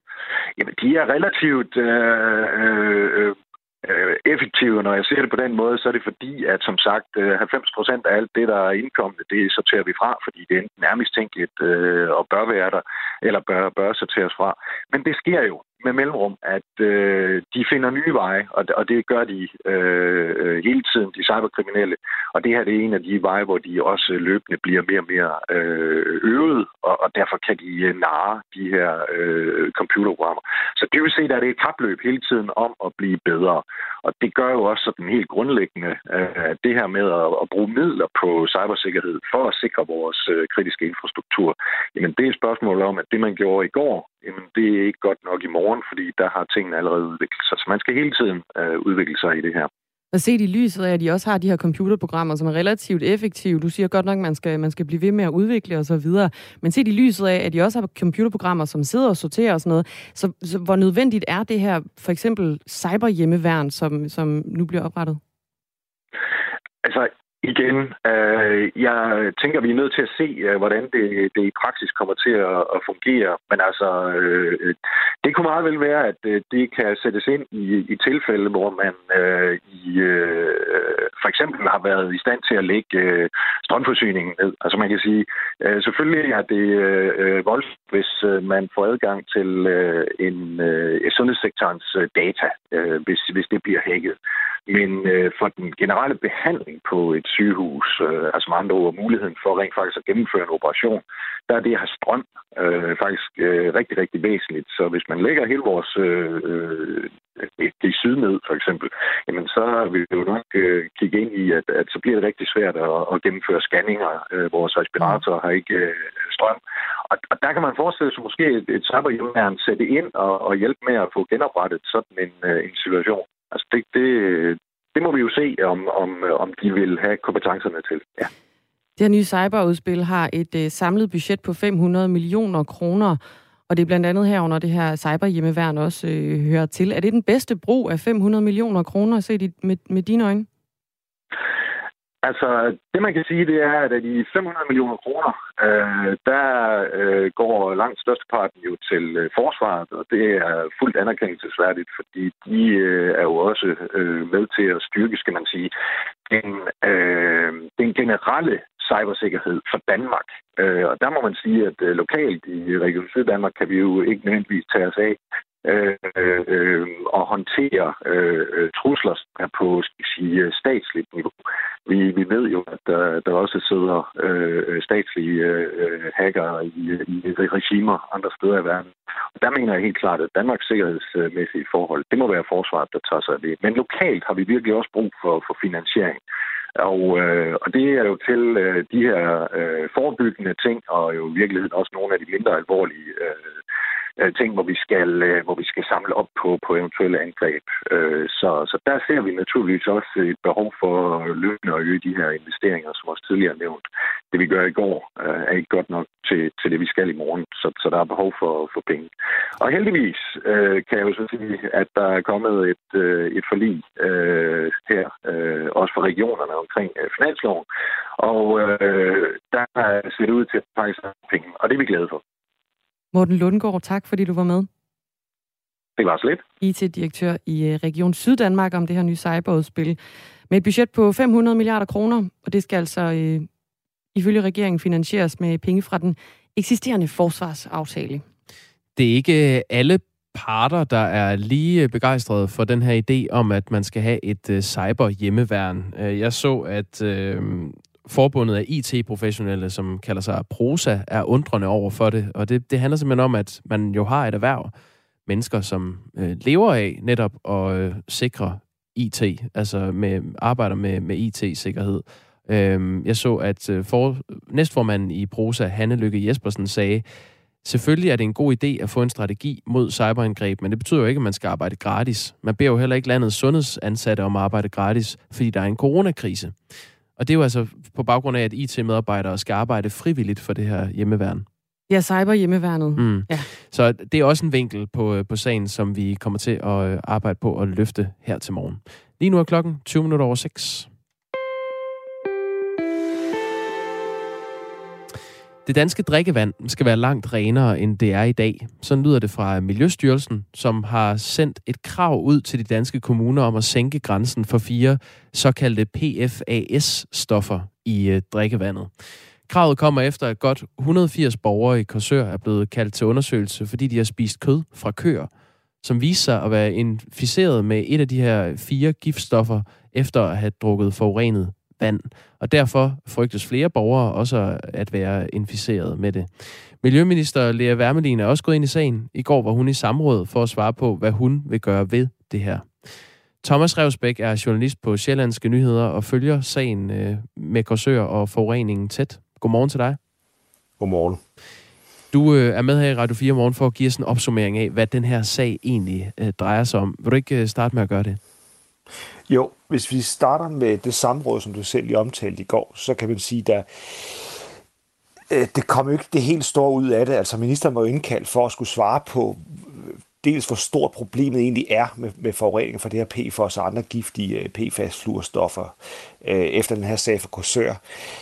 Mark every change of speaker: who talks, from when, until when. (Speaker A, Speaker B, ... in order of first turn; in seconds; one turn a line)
Speaker A: 0.6-49.7
Speaker B: 50.1-65.2
Speaker A: 66.8-94.2
Speaker A: 94.7-116.6
Speaker A: 117.1-128.3
Speaker B: 129.0-140.5
Speaker A: 142.2-155.7
Speaker A: 156.3-171.3
Speaker A: 171.9-186.2
Speaker A: 186.8-193.5
Speaker A: 194.2-217.7
Speaker A: 218.2-222.2
Speaker B: 223.1-224.7
Speaker A: 226.0-226.4
Speaker B: 226.6-230.0
Speaker B: 230.5-233.5
Speaker B: 234.2-238.2
Speaker C: 239.0-254.7
Speaker C: 255.3-267.1
Speaker C: 267.6-276.6
Speaker C: 277.2-281.5
Speaker B: 281.9-283.5
Speaker C: 283.0-290.9
Speaker C: 295.7-308.9
Speaker C: 309.4-315.3
Speaker C: 315.8-332.7
Speaker C: 333.4-340.0
Speaker D: 340.8-341.2
Speaker C: 342.1-348.2
Speaker D: 349.3-354.4
Speaker D: 355.3-367.8